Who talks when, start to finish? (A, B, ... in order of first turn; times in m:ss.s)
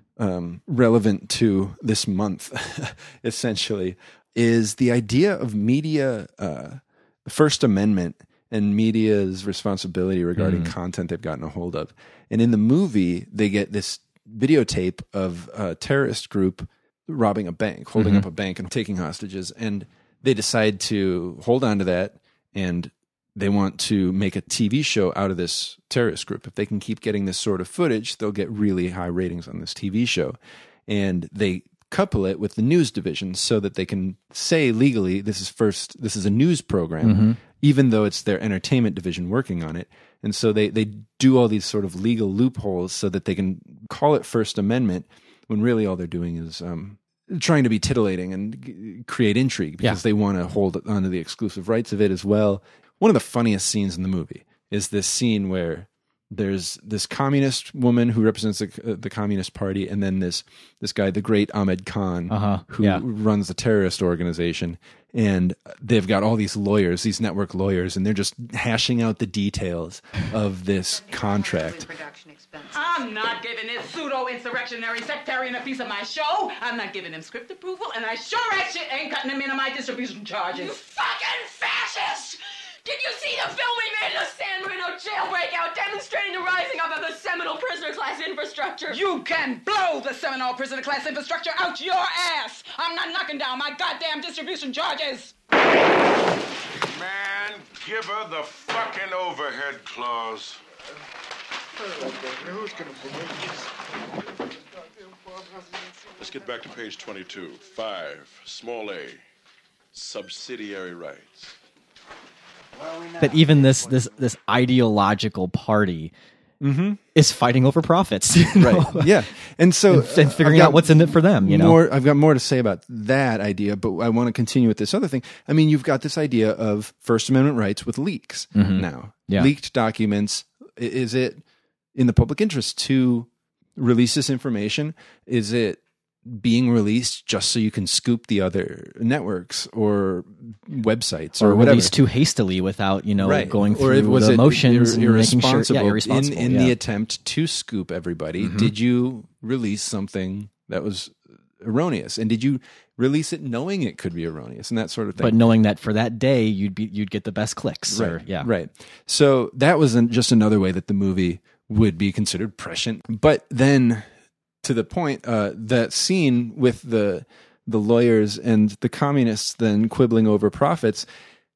0:00.2-1:11.9 A
0:10.4-0:10.7 B
0:18.0-0:18.2 B
0:37.0-0:37.4 B
1:02.3-1:03.0 B
1:12.0-1:13.0 C
1:12.7-1:20.8 D
1:20.5-1:29.0 C
1:28.9-1:35.3 D
1:36.8-1:40.6 E
1:42.3-1:43.5 E
1:46.2-1:49.2 E
1:49.9-1:51.5 E
1:53.2-1:56.1 B
1:56.6-1:57.0 A
1:57.1-1:59.2 B
1:58.6-2:21.9 A
1:59.9-2:01.8 B
2:08.5-2:09.5 B
2:21.4-2:26.7 B
2:23.2-2:35.4 A
2:28.4-2:28.7 B
2:35.2-2:38.5 B
2:37.9-2:44.1 A
2:44.6-2:51.0 A